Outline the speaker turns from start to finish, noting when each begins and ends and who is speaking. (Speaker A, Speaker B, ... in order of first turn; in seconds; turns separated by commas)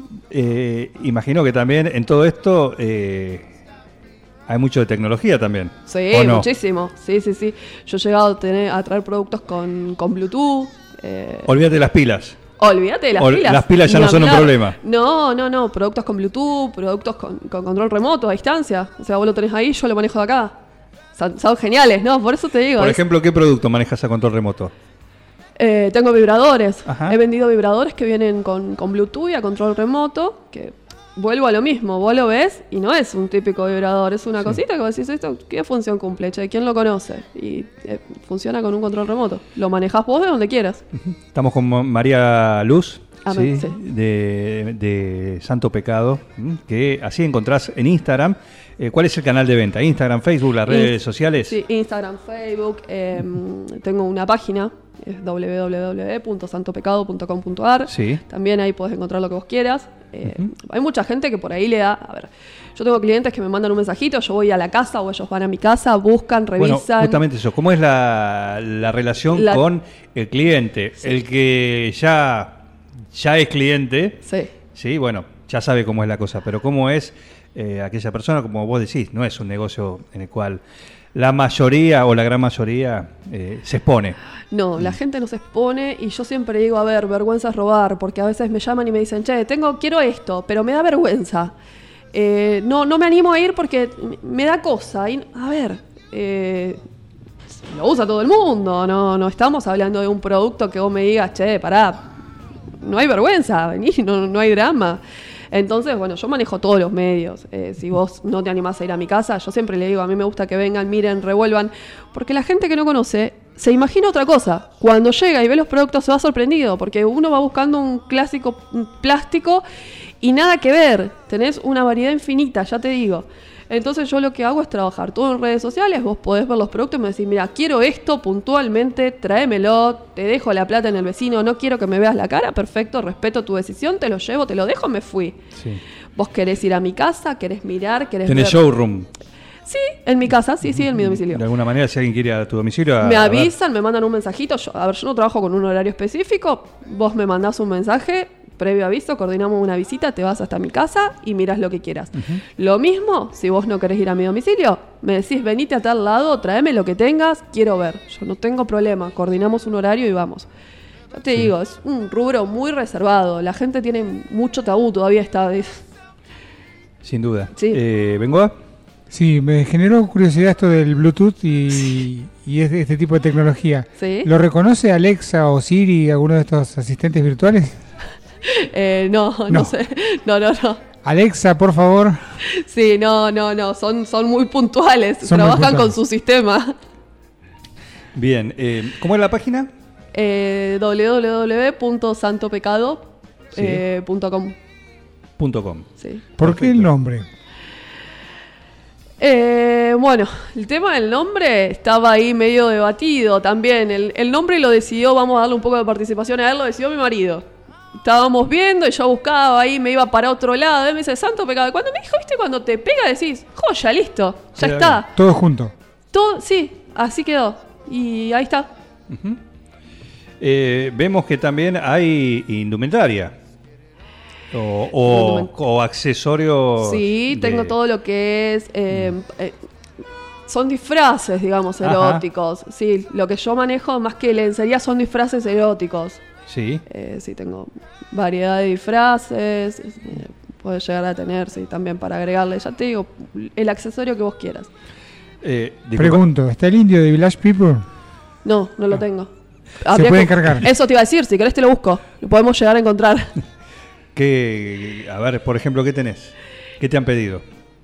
Speaker A: 0.3-3.5, Speaker A: 4.5-6.5, Speaker B: 5.9-11.5, Speaker A: 11.5-12.4, Speaker B: 12.6-20.6, Speaker A: 13.2-14.8, Speaker B: 21.1-23.0, Speaker A: 22.8-24.7, Speaker B: 25.6-40.8, Speaker A: 26.9-27.2, Speaker A: 41.0-51.6, Speaker B: 43.2-43.8, Speaker B: 50.7-67.2, Speaker A: 57.9-58.2, Speaker A: 60.2-60.5, Speaker A: 66.6-72.6, Speaker B: 69.3-69.6, Speaker A: 73.1-74.2, Speaker B: 74.2-74.5, Speaker A: 74.7-80.6, Speaker A: 81.1-84.2, Speaker B: 84.5-91.5, Speaker B: 92.1-96.8, Speaker B: 97.5-102.0, Speaker B: 102.8-119.6, Speaker B: 120.2-135.4, Speaker A: 135.6-135.8, Speaker B: 136.2-138.7, Speaker A: 138.3-139.1, Speaker B: 139.7-141.4, Speaker A: 140.7-143.5, Speaker B: 143.0-160.5, Speaker B: 161.1-165.8, Speaker A: 167.0-168.6, Speaker B: 167.6-167.8, Speaker C: 169.1-177.8, Speaker B: 174.0-174.3, Speaker B: 178.4-180.8, Speaker C: 181.0-182.2, Speaker B: 182.4-186.8, Speaker C: 185.3-185.9, Speaker A: 188.1-189.7, Speaker B: 190.1-194.6, Speaker A: 193.6-193.8, Speaker A: 195.4-195.9, Speaker C: 196.4-197.3, Speaker A: 196.4-196.9, Speaker B: 199.2-207.4, Speaker B: 208.0-215.1, Speaker A: 214.6-215.0, Speaker C: 215.2-215.7, Speaker B: 216.1-218.7, Speaker A: 219.1-219.4, Speaker A: 220.4-223.4, Speaker A: 224.5-227.8, Speaker B: 225.1-225.5, Speaker B: 226.8-229.6, Speaker B: 230.5-236.2, Speaker A: 231.8-232.2, Speaker A: 236.5-236.8, Speaker B: 236.9-244.7, Speaker A: 245.4-246.2, Speaker C: 246.0-247.8, Speaker B: 248.4-249.3, Speaker B: 249.8-253.3, Speaker C: 249.9-250.7, Speaker A: 254.1-257.4